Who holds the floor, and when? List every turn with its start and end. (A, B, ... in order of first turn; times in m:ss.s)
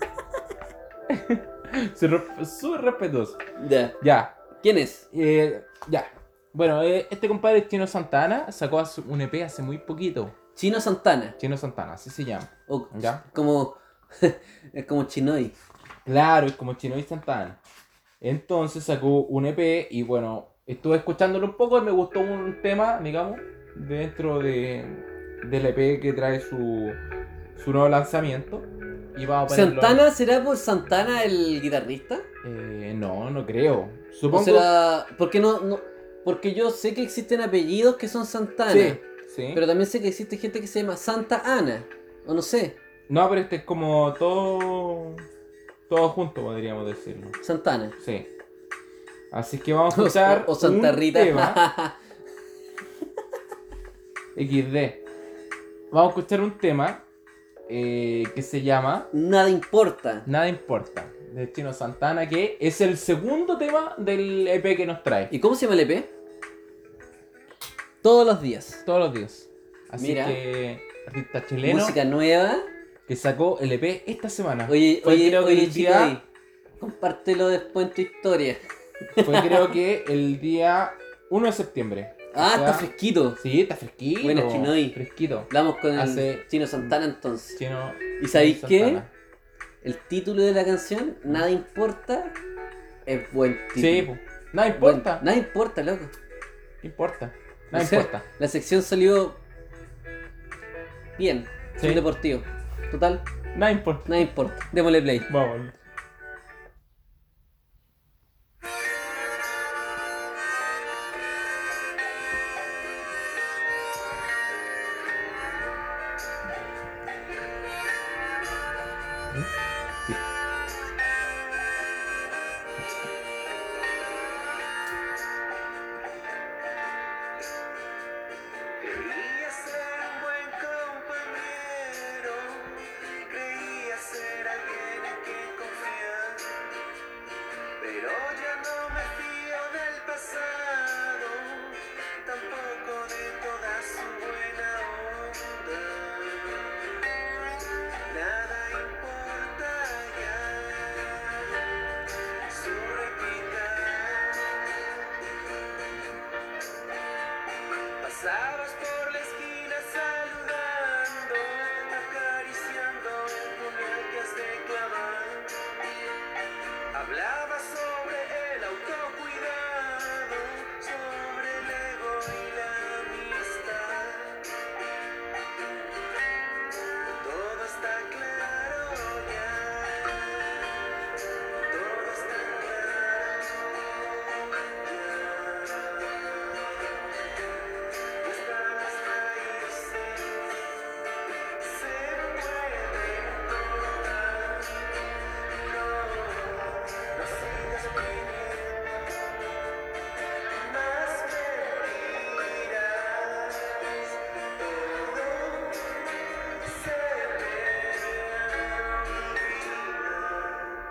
0:01.1-0:03.4 A
0:03.6-0:04.0 B
0:04.0-0:04.4 A
0:04.6-0:05.1 B
0:05.1-0:10.4 A
0:10.6-0:11.4 B
0:11.4-0:13.2 A
0:12.7-0:15.6 B
0:16.0-0:17.6 A
0:18.2-0:27.0 A
0:27.6-0:30.0 A
0:29.5-0:32.3 B
0:32.4-0:34.7 A
0:34.3-0:39.0 B
0:38.7-0:39.6 A
0:39.5-0:42.8 B
0:43.1-0:45.2 A
0:45.9-0:47.4 A
0:47.4-0:48.0 B
0:48.0-0:48.3 A
0:49.3-0:51.6 A
0:49.9-0:52.0 B
0:54.4-0:55.0 A
0:55.9-0:57.0 A
0:57.7-0:59.1 A
0:59.1-1:00.3 B
1:00.3-1:05.3 A
1:05.3-1:06.1 B
1:08.0-1:08.8 B
1:08.8-1:12.0 A
1:10.0-1:10.4 B
1:11.6-1:12.7 B
1:13.1-1:16.2 A
1:14.7-1:16.2 B
1:16.8-1:18.6 B
1:19.1-1:19.8 B
1:19.2-1:26.4 A
1:22.3-1:23.4 B
1:24.2-1:25.0 B
1:25.5-1:27.6 B
1:27.6-1:29.1 A
1:28.2-1:29.0 B
1:29.8-1:32.4 B
1:33.1-1:34.1 B
1:33.8-1:35.2 A
1:34.8-1:36.1 B
1:36.8-1:38.2 A
1:37.7-1:39.4 B
1:41.2-1:43.2 B
1:41.8-1:42.0 A
1:43.5-1:44.2 A
1:44.1-1:45.3 B
1:45.3-1:45.8 A
2:08.8-2:16.5 C
2:17.8-2:26.5 C
2:28.1-2:31.1 C
2:32.5-2:34.4 C
2:38.0-2:45.5 C
2:47.0-2:54.3 C
2:57.2-2:59.9 C
3:01.7-3:03.7 C
3:04.9-3:06.0 C
3:08.2-3:10.4 C
3:11.6-3:14.6 C
3:15.9-3:18.9 C
3:20.6-3:23.6 C
3:24.8-3:25.8 C
3:26.7-3:29.6 C